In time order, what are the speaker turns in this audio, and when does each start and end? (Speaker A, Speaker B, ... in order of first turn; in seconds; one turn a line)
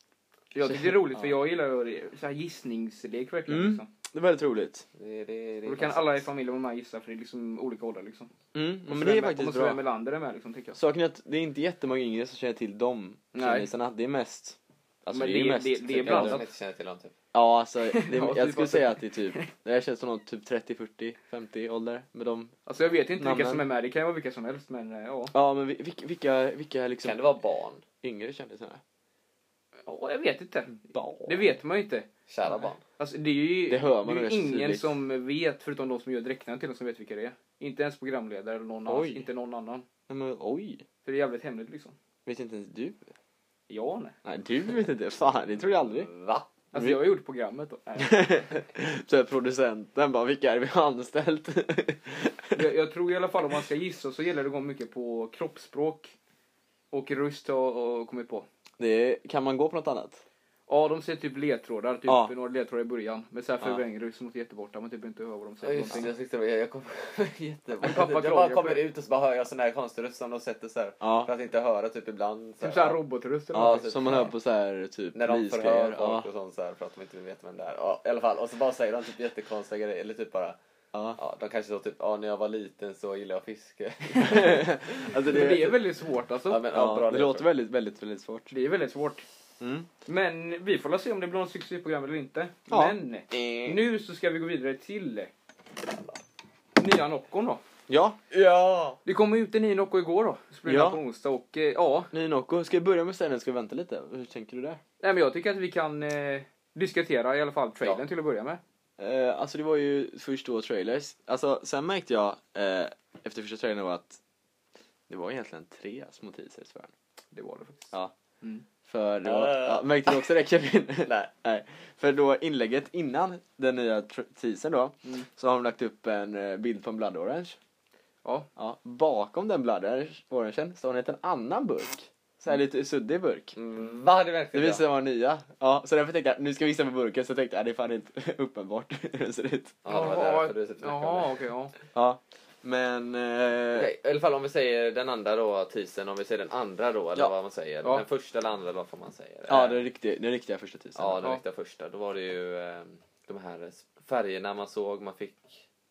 Speaker A: 0.5-3.9
Speaker B: 0.7-1.3
Speaker B: 3.5-4.8
Speaker C: 5.0-6.3
Speaker A: 5.7-8.3
Speaker B: 8.5-9.8
Speaker A: 8.9-10.8
Speaker B: 10.8-16.4
Speaker A: 13.3-13.7
Speaker A: 15.1-16.4
Speaker C: 16.0-17.2
Speaker B: 17.3-22.5
Speaker A: 17.9-19.5
Speaker A: 22.7-25.3
Speaker B: 23.2-23.6
Speaker B: 25.3-27.2
Speaker C: 27.0-27.9
Speaker B: 28.0-28.8
Speaker A: 29.9-32.1
Speaker B: 30.8-31.4
Speaker C: 32.3-32.8
Speaker A: 33.0-39.9
Speaker B: 33.7-35.0
Speaker B: 38.9-39.3
Speaker B: 40.1-40.8
Speaker A: 41.0-42.0
Speaker B: 42.3-43.1
Speaker A: 43.7-44.2
Speaker B: 44.2-46.1
Speaker C: 46.0-46.5
Speaker A: 46.7-48.5
Speaker B: 46.8-47.0
Speaker B: 48.0-52.6
Speaker A: 52.5-56.1
Speaker A: 56.9-58.5
Speaker B: 58.8-60.2
Speaker A: 60.7-66.1
Speaker B: 62.1-62.3
Speaker C: 65.6-73.0
Speaker A: 67.8-68.8
Speaker B: 71.0-71.3
Speaker A: 72.6-74.2
Speaker C: 73.5-74.3
Speaker B: 73.5-76.3
Speaker C: 75.2-80.6
Speaker C: 81.2-84.7
Speaker B: 84.2-85.8
Speaker A: 85.2-86.7
Speaker C: 86.5-87.5
Speaker B: 86.7-88.5
Speaker A: 88.5-89.2
Speaker B: 89.6-89.9
Speaker A: 90.1-95.3
Speaker B: 92.7-93.0
Speaker C: 93.3-93.8
Speaker C: 95.8-96.2
Speaker A: 96.8-97.6
Speaker B: 97.9-98.2
Speaker C: 98.3-99.0
Speaker A: 99.0-102.1
Speaker B: 100.7-101.0
Speaker B: 102.1-104.8
Speaker A: 105.0-108.6
Speaker B: 109.0-114.2
Speaker B: 115.1-116.9
Speaker A: 117.3-118.7
Speaker B: 118.9-127.6
Speaker C: 119.2-120.2
Speaker C: 121.0-121.3
Speaker B: 128.6-133.6
Speaker C: 133.6-134.8
Speaker B: 134.5-139.8
Speaker C: 139.8-141.4
Speaker A: 139.9-141.7
Speaker B: 141.9-143.9
Speaker C: 143.7-149.8
Speaker B: 149.5-151.2
Speaker C: 151.0-155.6